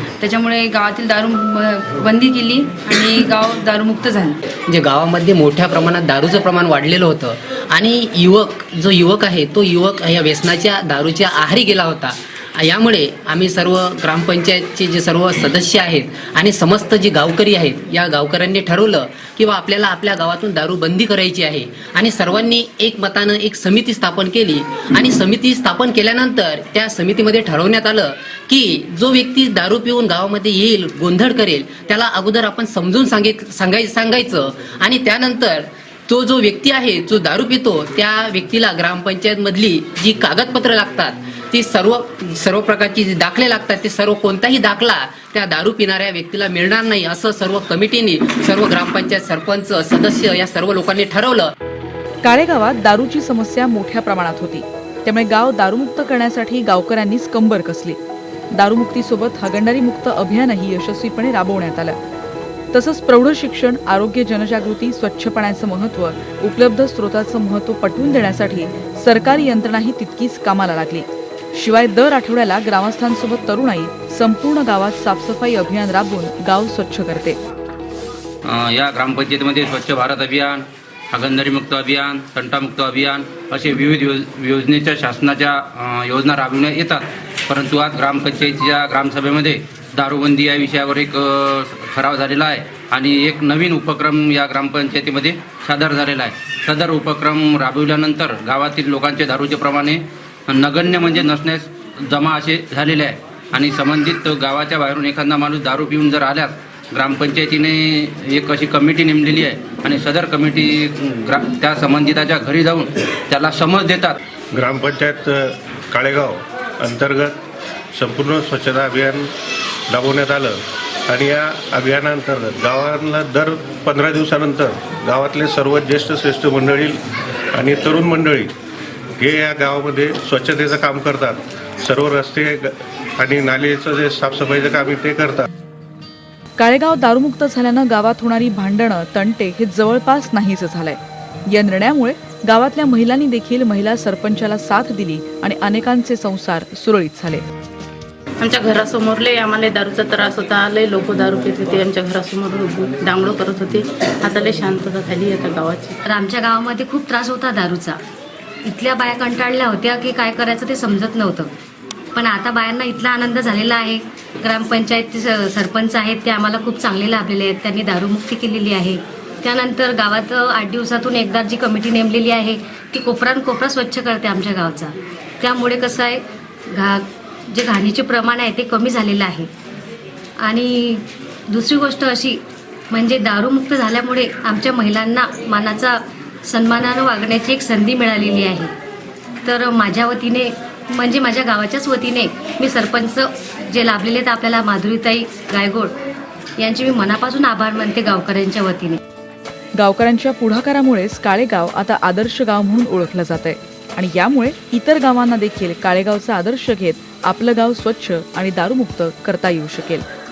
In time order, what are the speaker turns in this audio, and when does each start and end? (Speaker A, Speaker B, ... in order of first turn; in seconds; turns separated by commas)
Speaker A: 0.2-4.4, Speaker B: 4.7-51.5, Speaker C: 52.2-58.0, Speaker C: 58.5-62.0, Speaker C: 62.7-77.4, Speaker D: 78.4-114.2, Speaker E: 114.5-117.3, Speaker E: 117.9-119.3, Speaker E: 119.9-127.0, Speaker E: 127.5-128.5, Speaker E: 129.2-135.5, Speaker C: 136.6-147.4, Speaker F: 148.4-155.9, Speaker G: 156.0-158.0, Speaker G: 158.7-161.5, Speaker G: 162.2-179.5, Speaker G: 180.4-188.7, Speaker G: 189.4-195.9, Speaker G: 196.6-199.0, Speaker C: 199.8-210.0